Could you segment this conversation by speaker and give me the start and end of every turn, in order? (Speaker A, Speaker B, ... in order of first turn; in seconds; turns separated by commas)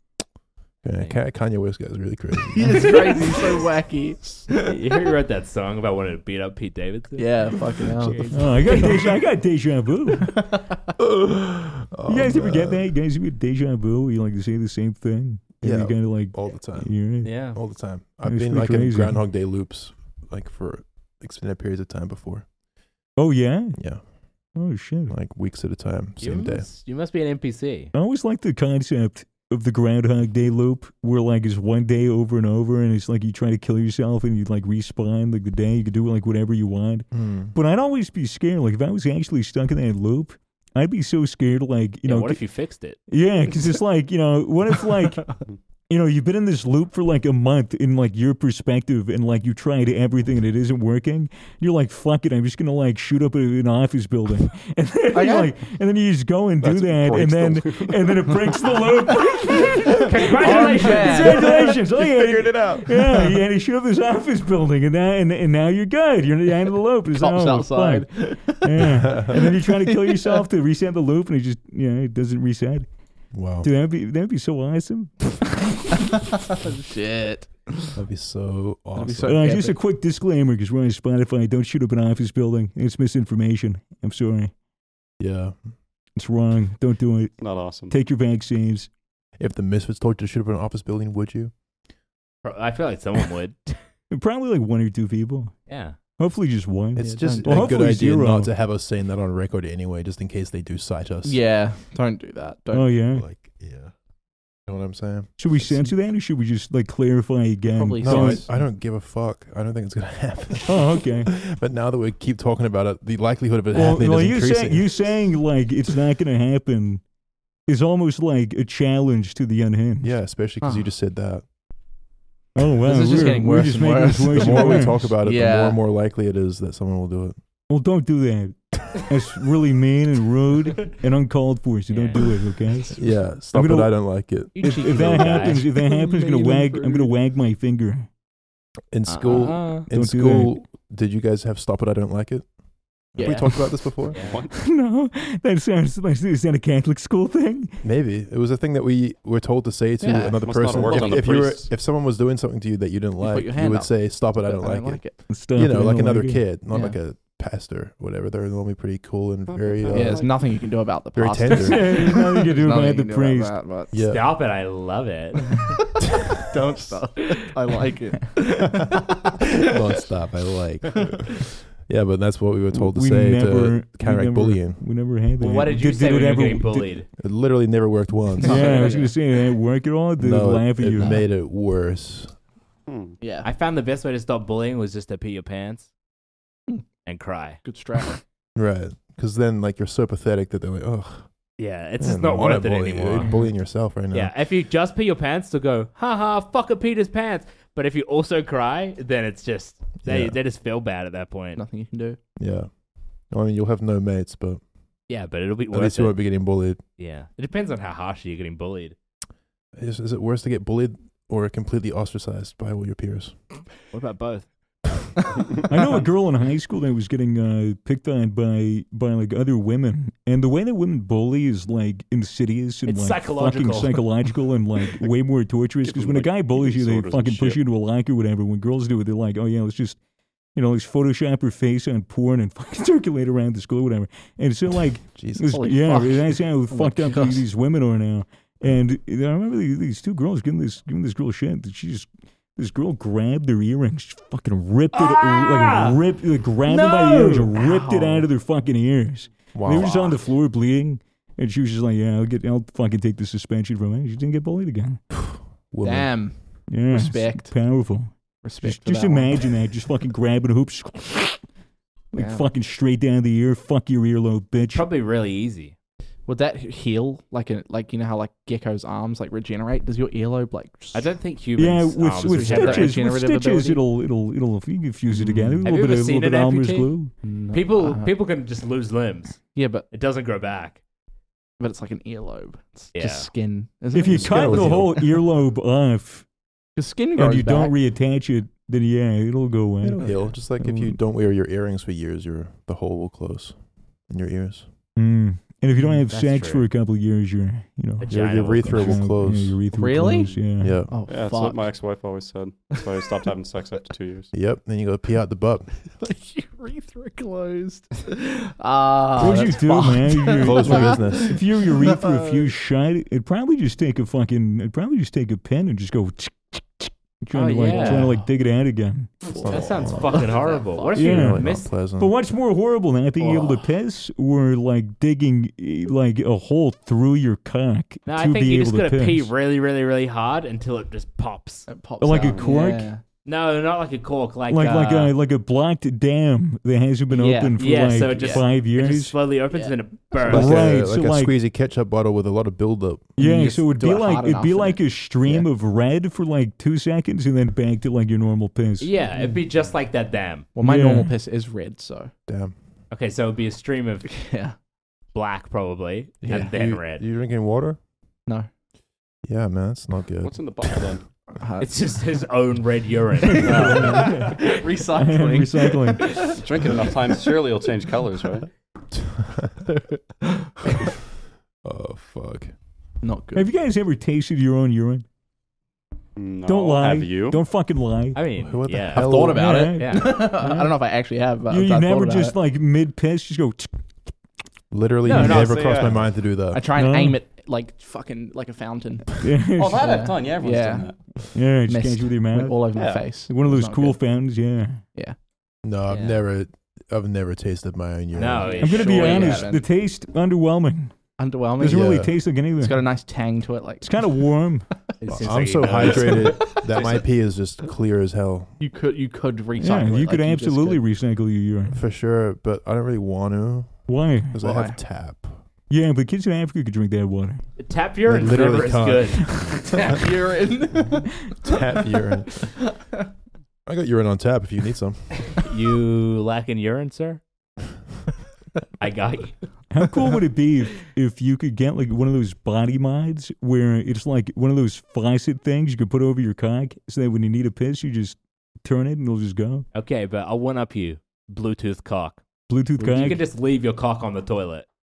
Speaker A: 0.8-3.1, Speaker B: 2.5-4.8, Speaker C: 4.6-9.1, Speaker B: 7.2-9.1, Speaker D: 8.3-10.4, Speaker B: 10.3-10.7, Speaker A: 11.0-12.9, Speaker D: 12.1-17.4, Speaker A: 15.6-22.5, Speaker C: 17.2-17.6, Speaker D: 18.2-19.2, Speaker D: 23.1-23.8, Speaker A: 23.8-24.0, Speaker D: 24.5-25.1, Speaker A: 25.1-26.7, Speaker C: 26.2-27.9, Speaker D: 27.9-42.4, Speaker A: 37.1-37.5, Speaker C: 42.0-43.0, Speaker D: 43.1-72.9, Speaker B: 55.1-55.5, Speaker E: 56.6-57.9, Speaker C: 59.9-61.7, Speaker B: 60.2-63.3, Speaker B: 67.1-70.4, Speaker A: 73.3-73.7, Speaker D: 73.6-76.1, Speaker B: 76.5-78.0, Speaker A: 77.9-79.4, Speaker B: 79.0-79.8, Speaker D: 79.2-84.5, Speaker A: 85.2-85.6, Speaker D: 86.2-88.9, Speaker E: 87.4-87.9, Speaker A: 89.4-91.5, Speaker C: 92.4-93.8, Speaker D: 94.1-95.5, Speaker C: 95.7-96.0, Speaker D: 96.2-98.5, Speaker A: 97.0-101.4, Speaker B: 97.0-97.7, Speaker B: 101.2-102.9, Speaker D: 102.7-103.2, Speaker A: 103.1-103.9, Speaker A: 104.7-105.5, Speaker D: 105.4-108.5, Speaker B: 107.7-108.5, Speaker A: 108.0-115.1, Speaker D: 110.7-111.3, Speaker D: 113.7-117.0, Speaker D: 117.7-120.1, Speaker A: 120.0-121.4, Speaker D: 122.5-125.1, Speaker B: 122.8-125.8, Speaker A: 124.2-127.3, Speaker D: 127.7-138.1, Speaker C: 131.9-132.2, Speaker A: 132.9-135.0, Speaker C: 134.5-135.6, Speaker B: 134.6-137.1, Speaker A: 138.9-142.5, Speaker B: 139.1-139.6, Speaker C: 139.3-139.8, Speaker D: 139.9-140.6, Speaker A: 143.1-144.2, Speaker B: 143.2-143.9, Speaker C: 144.1-144.5, Speaker E: 144.1-144.6, Speaker D: 144.5-147.8, Speaker A: 147.8-160.3, Speaker B: 150.0-151.2, Speaker E: 150.2-151.7, Speaker B: 153.2-155.2, Speaker D: 155.3-156.4, Speaker B: 156.7-157.0, Speaker E: 159.5-160.4, Speaker B: 159.9-163.9, Speaker A: 161.1-162.0, Speaker D: 161.5-163.6, Speaker A: 163.9-164.3, Speaker C: 163.9-165.9, Speaker B: 166.4-169.4, Speaker A: 169.6-174.8, Speaker D: 172.7-176.9, Speaker C: 175.4-177.1, Speaker A: 177.2-178.8, Speaker D: 178.4-181.2, Speaker B: 178.4-179.1, Speaker C: 178.5-178.9, Speaker A: 180.2-182.3, Speaker B: 181.0-181.2, Speaker E: 182.9-183.2, Speaker B: 183.2-183.5, Speaker C: 183.4-185.9, Speaker C: 187.0-187.6, Speaker B: 187.6-188.2, Speaker A: 188.6-191.3, Speaker C: 191.6-193.4, Speaker A: 192.0-194.3, Speaker C: 194.1-201.6, Speaker A: 200.0-200.4, Speaker B: 201.6-202.2, Speaker A: 202.4-202.7, Speaker A: 203.3-204.6, Speaker C: 205.1-206.4, Speaker A: 205.7-206.8, Speaker C: 207.0-208.9, Speaker A: 209.8-213.4, Speaker C: 213.9-214.5, Speaker D: 215.7-230.0, Speaker C: 222.8-224.2, Speaker E: 225.8-227.6, Speaker D: 230.5-255.0, Speaker A: 235.1-235.6, Speaker B: 235.4-237.4, Speaker C: 244.9-246.0, Speaker C: 246.7-247.1, Speaker B: 246.9-248.3, Speaker A: 249.5-250.2, Speaker A: 255.3-256.2, Speaker B: 255.8-257.9, Speaker D: 256.7-261.4, Speaker B: 258.4-259.6, Speaker D: 262.1-264.9, Speaker B: 262.1-262.5, Speaker C: 264.7-265.7, Speaker B: 266.2-271.1, Speaker C: 270.9-273.0, Speaker D: 271.6-277.1, Speaker B: 272.2-273.8, Speaker B: 275.2-275.6, Speaker C: 275.6-276.9, Speaker B: 277.2-278.1, Speaker C: 277.5-280.8, Speaker B: 279.5-279.9, Speaker B: 281.6-285.2, Speaker C: 282.9-283.3, Speaker D: 283.9-286.3, Speaker A: 284.1-284.9, Speaker B: 286.8-287.7, Speaker D: 287.1-291.0, Speaker A: 289.8-293.6, Speaker A: 294.1-294.6, Speaker D: 294.9-300.8, Speaker C: 296.1-296.6, Speaker C: 298.0-299.0, Speaker A: 298.1-299.6, Speaker B: 299.7-301.8, Speaker A: 300.6-300.9, Speaker E: 301.1-304.3, Speaker A: 304.3-305.8, Speaker B: 306.0-312.5, Speaker D: 309.2-319.1, Speaker A: 310.4-311.4, Speaker C: 317.3-318.2, Speaker B: 317.6-318.2, Speaker B: 319.3-321.0, Speaker A: 319.3-320.3, Speaker C: 319.4-321.7, Speaker A: 320.9-322.1, Speaker D: 320.9-329.3, Speaker B: 323.2-323.7, Speaker C: 328.1-331.7, Speaker B: 331.7-333.0, Speaker D: 332.0-332.9, Speaker E: 332.1-332.5, Speaker C: 333.2-335.1, Speaker D: 334.5-339.2, Speaker B: 334.7-335.0, Speaker B: 337.1-338.4, Speaker C: 337.6-340.6, Speaker B: 339.5-339.8, Speaker A: 340.2-343.1, Speaker D: 340.2-341.3, Speaker D: 343.1-348.9, Speaker B: 343.2-345.5, Speaker C: 348.8-350.5, Speaker B: 350.5-352.1, Speaker D: 350.6-351.1, Speaker A: 352.3-352.5, Speaker C: 352.9-354.3, Speaker B: 354.1-354.5, Speaker C: 355.1-357.0, Speaker A: 356.2-357.8, Speaker B: 356.2-356.5, Speaker A: 359.2-360.9, Speaker E: 360.2-361.1, Speaker B: 361.4-361.7, Speaker C: 361.6-364.5, Speaker D: 363.3-366.1, Speaker B: 363.4-366.7, Speaker E: 363.4-364.1, Speaker E: 366.3-368.5, Speaker A: 368.9-369.6, Speaker A: 371.6-372.5, Speaker B: 373.0-373.5, Speaker D: 373.3-375.0, Speaker E: 376.1-377.4, Speaker D: 376.5-378.2, Speaker C: 378.1-380.3, Speaker A: 378.4-379.5, Speaker B: 378.9-382.4, Speaker D: 379.1-380.8, Speaker D: 381.5-383.8, Speaker A: 384.7-386.6, Speaker C: 385.0-385.7, Speaker E: 385.2-386.2, Speaker B: 386.5-394.0, Speaker D: 386.7-387.2, Speaker D: 389.2-389.8, Speaker E: 389.5-391.2, Speaker D: 391.3-394.8, Speaker E: 392.7-393.2, Speaker A: 395.6-398.6, Speaker C: 398.1-399.5, Speaker B: 398.4-399.6, Speaker D: 398.6-402.9, Speaker B: 401.2-402.0, Speaker A: 401.6-402.1, Speaker B: 402.6-404.5, Speaker D: 403.8-404.7, Speaker C: 405.0-407.0, Speaker A: 405.1-408.6, Speaker B: 405.9-406.9, Speaker B: 408.6-410.8, Speaker D: 409.6-411.8, Speaker A: 411.7-415.4, Speaker D: 413.9-414.4, Speaker B: 414.4-414.8, Speaker D: 415.7-417.4, Speaker C: 417.6-419.5, Speaker A: 418.0-419.8, Speaker D: 419.3-419.6, Speaker B: 419.7-421.6, Speaker A: 421.4-422.5, Speaker A: 423.6-425.4, Speaker C: 425.4-427.2, Speaker C: 428.8-429.4, Speaker D: 429.7-439.6, Speaker C: 439.7-442.2, Speaker D: 442.5-443.2, Speaker C: 442.8-444.7